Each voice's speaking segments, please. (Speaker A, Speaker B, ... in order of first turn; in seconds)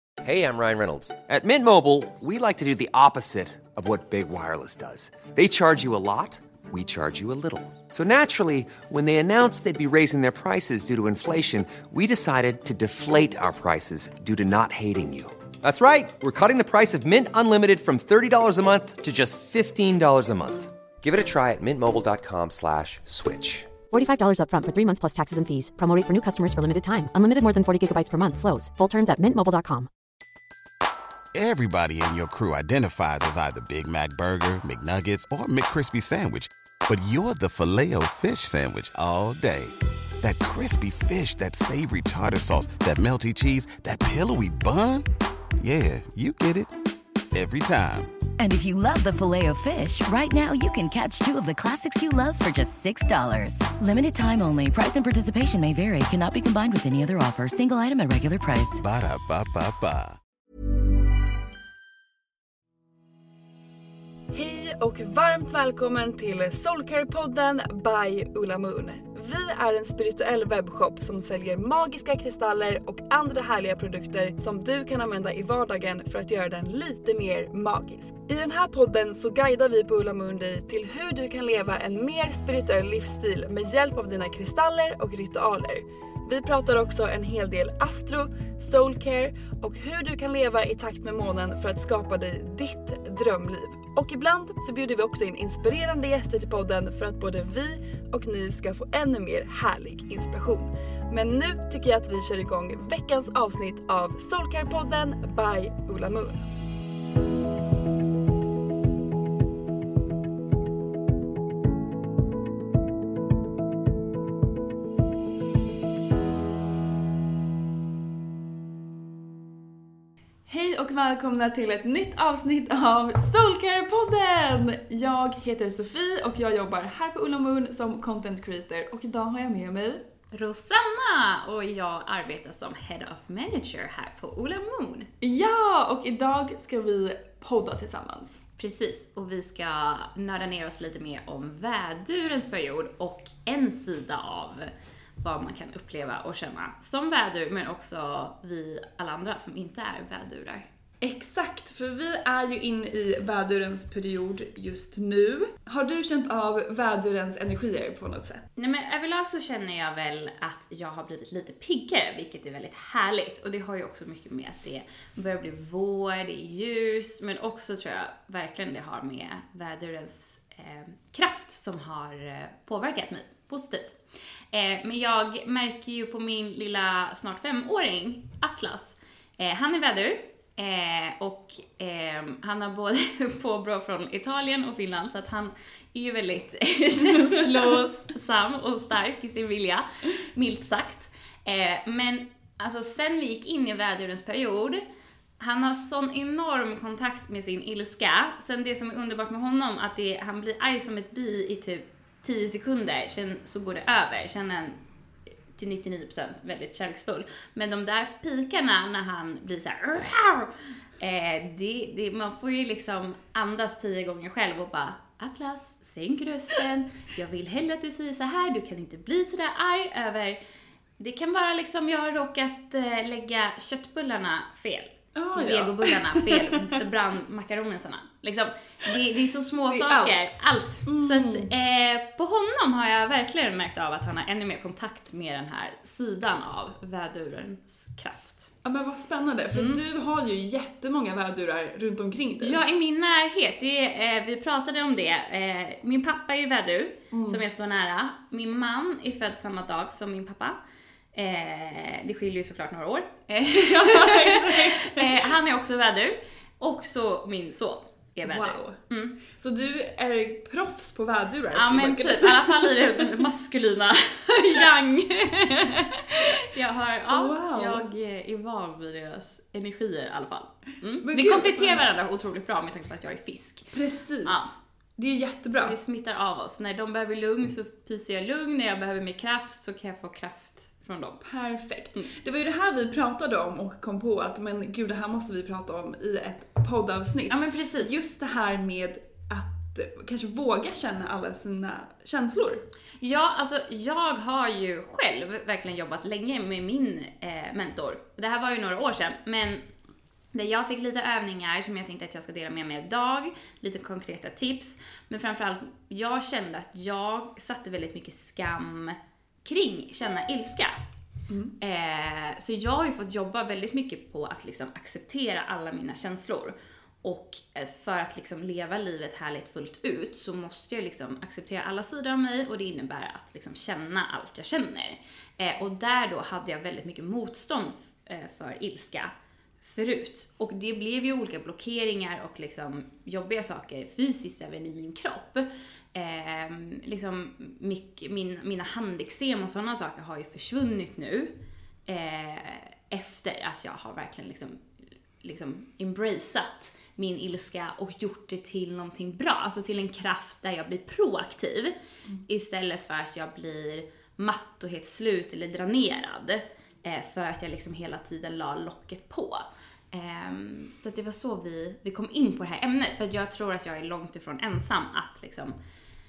Speaker A: 0.2-23.8
Speaker B: 23.9-29.9
Speaker C: 31.3-45.1, 45.6-46.7, 47.3-48.1, 58.8-60.2
Speaker D: 48.4-58.8
Speaker E: 64.3-106.4, 120.5-130.0, 135.2-138.4, 151.0-158.4, 225.2-226.8, 229.7-230.2, 230.9-231.5, 238.6-242.6, 247.1-247.4, 253.5-255.3, 258.2-258.8, 259.3-263.2, 267.1-267.9, 271.0-271.9, 273.7-275.8, 281.2-292.6, 311.3-311.5
Speaker F: 130.3-135.1, 138.6-150.7, 158.6-174.0, 174.5-194.8, 195.4-204.8, 205.6-220.4, 221.0-238.5, 239.5-239.8, 242.4-250.6, 251.2-259.2, 261.5-273.7, 274.2-274.5, 275.5-281.2, 287.3-288.0, 293.0-299.6, 300.3-310.8, 311.6-341.3, 341.9-344.6, 345.2-351.8, 352.3-365.6